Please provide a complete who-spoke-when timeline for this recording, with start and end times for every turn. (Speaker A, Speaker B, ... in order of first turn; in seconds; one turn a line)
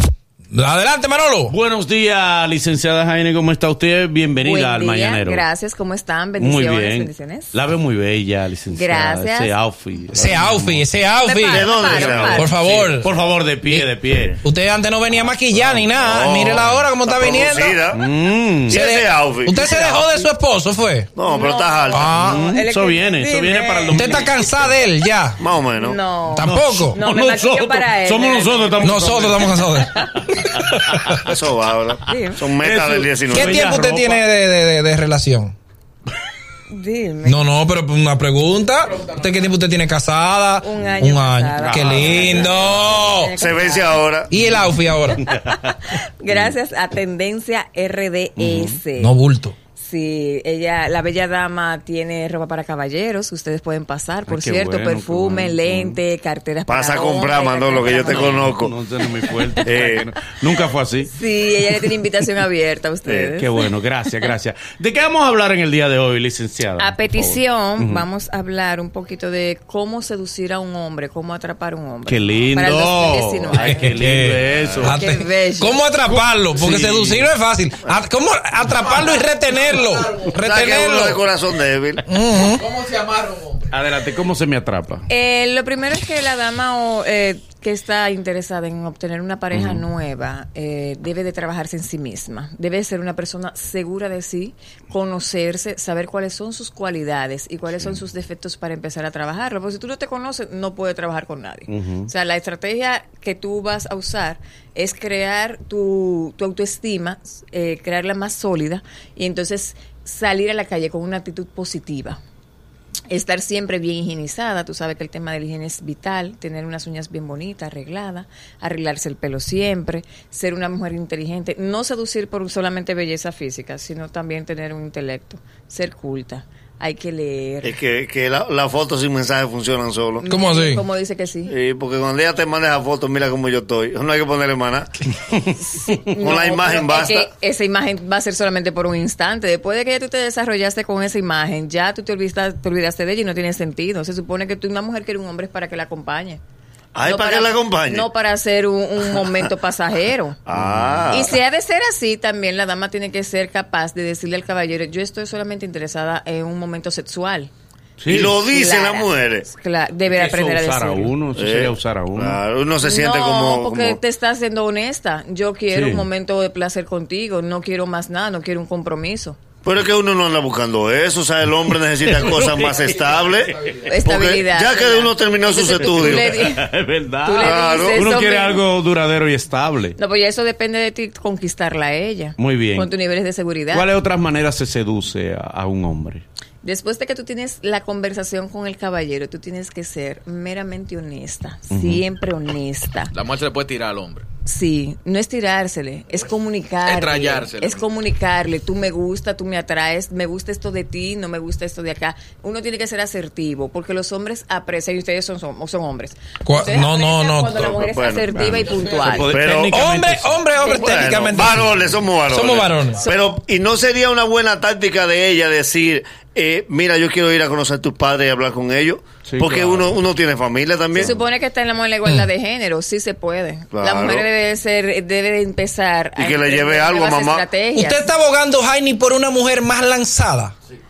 Speaker A: 0.5-1.5
Speaker B: 1.5-5.4
Speaker C: 4.4-7.5
Speaker B: 6.4-10.8
Speaker C: 8.7-9.6
Speaker A: 10.1-11.8
Speaker C: 11.2-12.5
Speaker D: 11.5-12.4
Speaker B: 11.8-14.4
Speaker A: 12.3-13.1
Speaker A: 14.4-17.8
Speaker D: 15.9-18.0
Speaker B: 17.9-18.8
Speaker D: 18.7-19.5
Speaker A: 18.7-21.1
Speaker C: 19.5-20.3
Speaker D: 21.1-22.1
Speaker C: 21.2-24.3
Speaker A: 21.9-22.4
Speaker B: 22.2-24.7
Speaker A: 23.9-25.4
Speaker D: 25.4-26.0
Speaker C: 25.8-30.2
Speaker A: 26.3-27.0
Speaker B: 26.4-29.7
Speaker A: 28.8-31.2
Speaker D: 31.2-33.7
Speaker C: 32.0-32.4
Speaker B: 32.6-34.2
Speaker A: 33.3-35.5
Speaker C: 36.7-37.4
Speaker A: 37.2-43.3
Speaker E: 38.8-39.5
Speaker C: 40.6-44.0
Speaker B: 41.6-42.5
Speaker D: 43.4-44.3
Speaker A: 44.3-45.2
Speaker C: 45.1-49.1
Speaker B: 48.4-48.8
Speaker A: 49.0-49.5
Speaker C: 49.8-58.5
Speaker B: 54.2-56.0
Speaker D: 56.7-58.7
Speaker B: 58.0-61.1
Speaker D: 59.6-60.0
Speaker C: 61.1-63.6
Speaker B: 63.2-68.0
Speaker C: 66.8-73.9
Speaker B: 72.0-75.0
Speaker A: 73.6-81.2
Speaker C: 74.8-75.8
Speaker B: 76.0-77.3
Speaker E: 78.7-80.5
Speaker D: 80.3-82.0
Speaker A: 82.1-82.7
Speaker E: 82.3-83.7
Speaker B: 83.7-85.0
Speaker C: 85.1-112.2
Speaker B: 89.5-89.8
Speaker B: 101.7-102.1
Speaker C: 113.1-127.8
Speaker D: 127.6-130.2
Speaker C: 130.2-131.5
Speaker A: 130.3-130.8
Speaker D: 131.4-134.9
Speaker C: 135.5-146.4
Speaker D: 136.0-137.3
Speaker D: 146.9-148.1
Speaker C: 147.0-150.4
Speaker D: 150.5-151.4
Speaker B: 150.5-151.3
Speaker C: 151.1-157.5
Speaker B: 158.0-158.3
Speaker D: 158.1-159.5
Speaker C: 158.1-161.2
Speaker B: 160.1-162.4
Speaker D: 161.3-164.0
Speaker C: 162.8-169.4
Speaker B: 165.7-166.1
Speaker D: 169.6-176.4
Speaker B: 172.0-172.8
Speaker E: 173.4-173.9
Speaker C: 173.9-176.7
Speaker B: 175.8-179.9
Speaker C: 177.2-178.6
Speaker D: 177.4-178.0
Speaker C: 179.9-183.9
Speaker B: 182.4-182.9
Speaker B: 183.7-186.2
Speaker C: 186.6-193.1
Speaker B: 191.7-192.0
Speaker E: 193.1-194.2
Speaker C: 194.4-209.3
Speaker E: 196.8-197.8
Speaker A: 206.4-207.6
Speaker D: 207.6-209.7
Speaker B: 208.4-210.4
Speaker E: 208.8-209.1
Speaker A: 209.7-213.0
Speaker E: 210.5-211.5
Speaker C: 210.6-211.1
Speaker D: 210.8-221.1
Speaker B: 219.2-219.9
Speaker C: 220.9-228.1
Speaker D: 223.7-224.3
Speaker D: 226.2-227.5
Speaker A: 227.7-230.5